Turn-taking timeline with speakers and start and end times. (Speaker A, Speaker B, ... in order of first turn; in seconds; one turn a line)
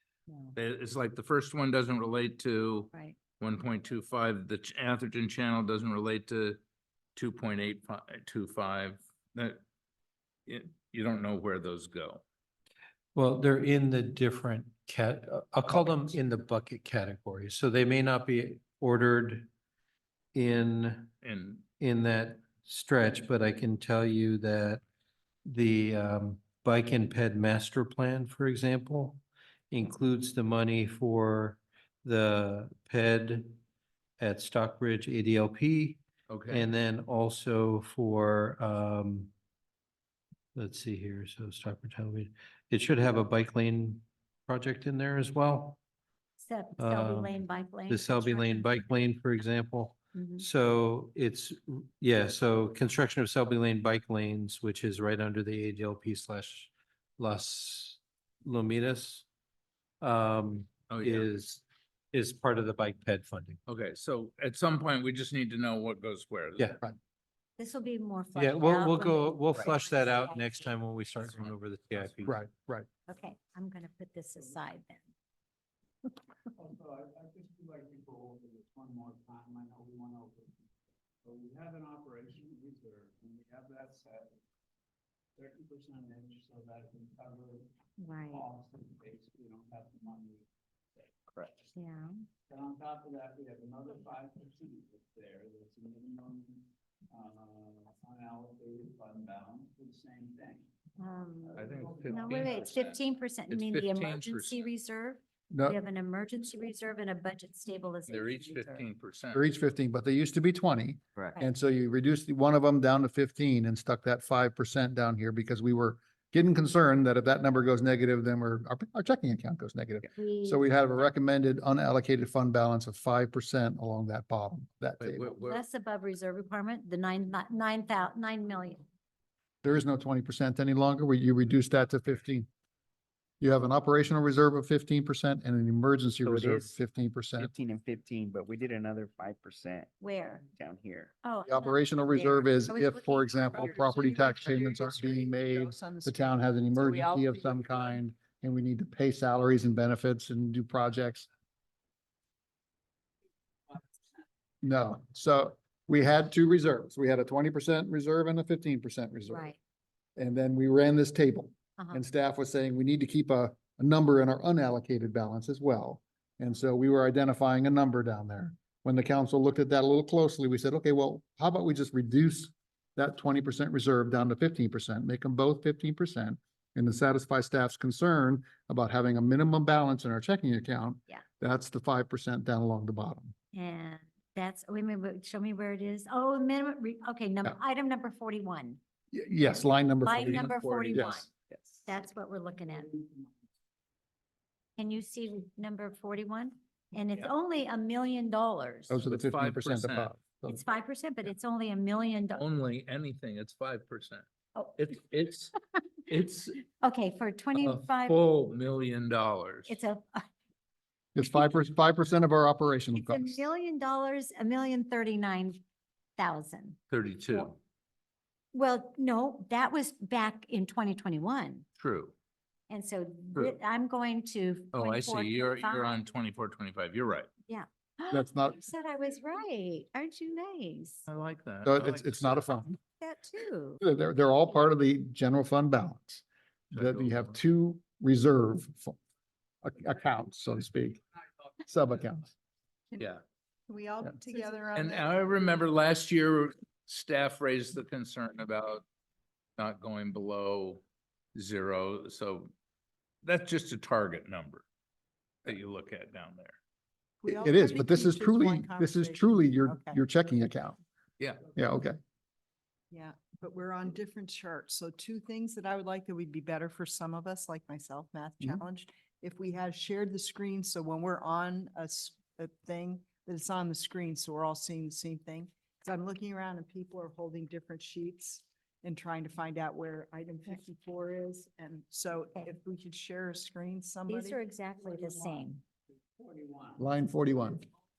Speaker A: 0.3-0.6
Speaker B: 0.6-6.6
Speaker B: 7.2-9.6
Speaker B: 10.5-12.2
Speaker C: 13.2-19.5
Speaker C: 20.3-21.1
Speaker B: 21.2-21.6
Speaker C: 21.8-24.8
Speaker C: 25.4-33.6
Speaker C: 34.2-39.3
Speaker B: 36.3-36.7
Speaker C: 40.5-45.8
Speaker A: 46.4-48.8
Speaker C: 46.8-59.3
Speaker A: 50.1-50.5
Speaker C: 60.0-63.6
Speaker B: 60.9-61.3
Speaker B: 63.7-66.8
Speaker A: 67.6-70.7
Speaker C: 68.3-72.4
Speaker D: 72.2-72.9
Speaker A: 73.1-75.1
Speaker E: 76.6-80.5
Speaker E: 81.3-84.2
Speaker E: 85.4-87.6
Speaker A: 88.0-88.5
Speaker E: 88.4-90.4
Speaker A: 91.7-92.2
Speaker E: 92.5-96.5
Speaker E: 97.1-100.6
Speaker A: 101.0-108.8
Speaker B: 101.6-103.0
Speaker B: 103.5-104.6
Speaker D: 105.5-105.8
Speaker B: 108.1-109.5
Speaker D: 109.3-125.3
Speaker A: 120.2-120.8
Speaker B: 125.0-125.6
Speaker A: 125.4-128.9
Speaker D: 129.6-132.5
Speaker D: 133.4-137.5
Speaker F: 136.2-136.7
Speaker F: 137.4-139.9
Speaker A: 140.0-140.4
Speaker F: 140.5-141.1
Speaker A: 141.2-141.9
Speaker D: 141.5-151.3
Speaker G: 142.7-147.4
Speaker D: 154.6-159.5
Speaker A: 159.3-159.6
Speaker D: 160.2-183.3
Speaker A: 161.8-162.0
Speaker A: 183.5-188.8
Speaker D: 189.1-191.2
Speaker A: 190.0-191.3
Speaker B: 190.1-191.2
Speaker A: 191.8-192.9
Speaker A: 194.8-199.0
Speaker D: 198.9-200.6
Speaker B: 199.1-200.1
Speaker A: 200.5-202.4
Speaker B: 202.4-204.2
Speaker A: 204.6-204.8
Speaker B: 204.8-205.5
Speaker B: 206.1-206.6
Speaker A: 206.8-208.2
Speaker B: 207.6-209.8
Speaker A: 209.7-210.3
Speaker D: 211.2-213.4
Speaker A: 212.9-215.6
Speaker A: 216.2-216.8
Speaker B: 216.9-217.6
Speaker A: 218.5-221.7
Speaker B: 221.8-222.1
Speaker A: 222.7-226.0
Speaker B: 224.7-227.3
Speaker A: 227.5-231.1
Speaker D: 228.1-228.6
Speaker B: 231.1-232.5
Speaker D: 231.7-232.8
Speaker A: 233.0-233.8
Speaker D: 233.8-239.0
Speaker B: 236.7-237.4
Speaker D: 239.6-241.0
Speaker D: 241.7-242.3
Speaker G: 243.7-245.3
Speaker B: 244.7-248.8
Speaker B: 249.6-250.8
Speaker B: 251.3-252.5
Speaker B: 253.2-254.7
Speaker B: 255.4-256.6
Speaker G: 257.2-260.0
Speaker D: 257.3-260.8
Speaker B: 261.2-261.5
Speaker D: 261.6-262.0
Speaker G: 262.9-284.4
Speaker A: 284.1-285.6
Speaker E: 286.2-286.7
Speaker D: 286.8-287.6